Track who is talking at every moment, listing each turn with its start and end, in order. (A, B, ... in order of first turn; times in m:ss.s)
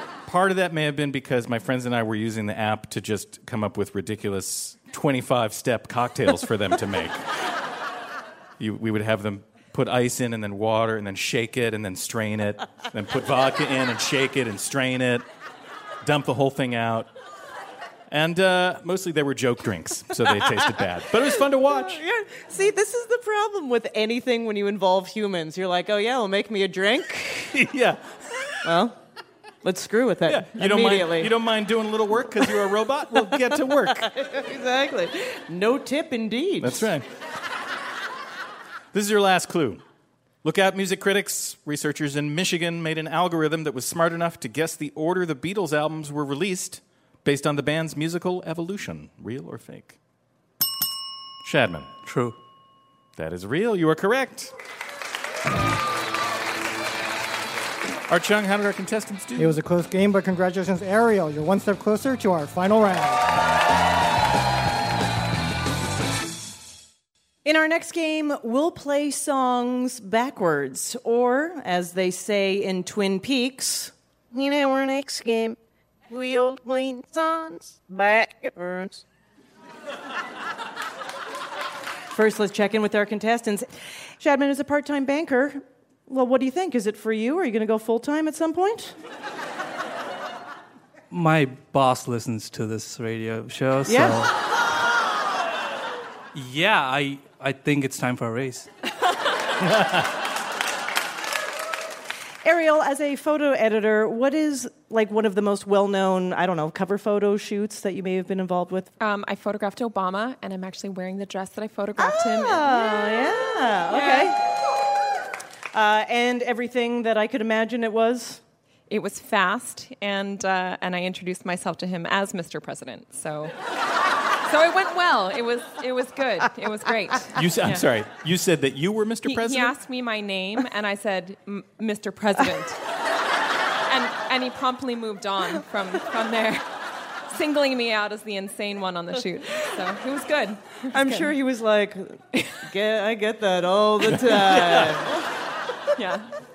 0:00.3-0:07.2 A
0:08.6-0:15.2 A
0:16.0-0:17.1 A
0:18.1-0:22.0 A
0:21.7-0:27.6 B
0:27.6-0:28.0 A
0:28.6-0:29.0 B
0:29.6-0:31.3 B
0:30.3-0:34.1 A
0:33.9-0:36.9 B
0:36.6-0:37.0 A
0:38.9-0:39.8 A
0:40.4-0:50.0 A
0:51.4-0:51.9 A
0:52.0-0:52.4 C
0:53.2-0:54.5 A
0:58.1-0:59.6 A
0:59.4-1:03.2 D
1:07.4-1:15.6 B
1:16.1-1:19.0 B
1:22.1-1:23.7 B
1:24.2-1:28.9 B
1:31.1-1:34.3 C
1:33.9-1:34.2 B
1:36.3-1:38.7 C
1:39.7-1:40.0 A
1:42.4-1:48.9 B
1:49.0-1:53.3 E
1:52.0-1:54.4 B
1:53.9-1:54.3 E
1:55.7-1:58.4 B
1:58.9-2:03.5 E
2:04.5-2:07.8 E
2:07.4-2:09.8 A
2:09.2-2:12.8 E
2:13.9-2:16.7 E
2:17.3-2:21.3 E
2:20.9-2:25.1 B
2:26.0-2:26.3 E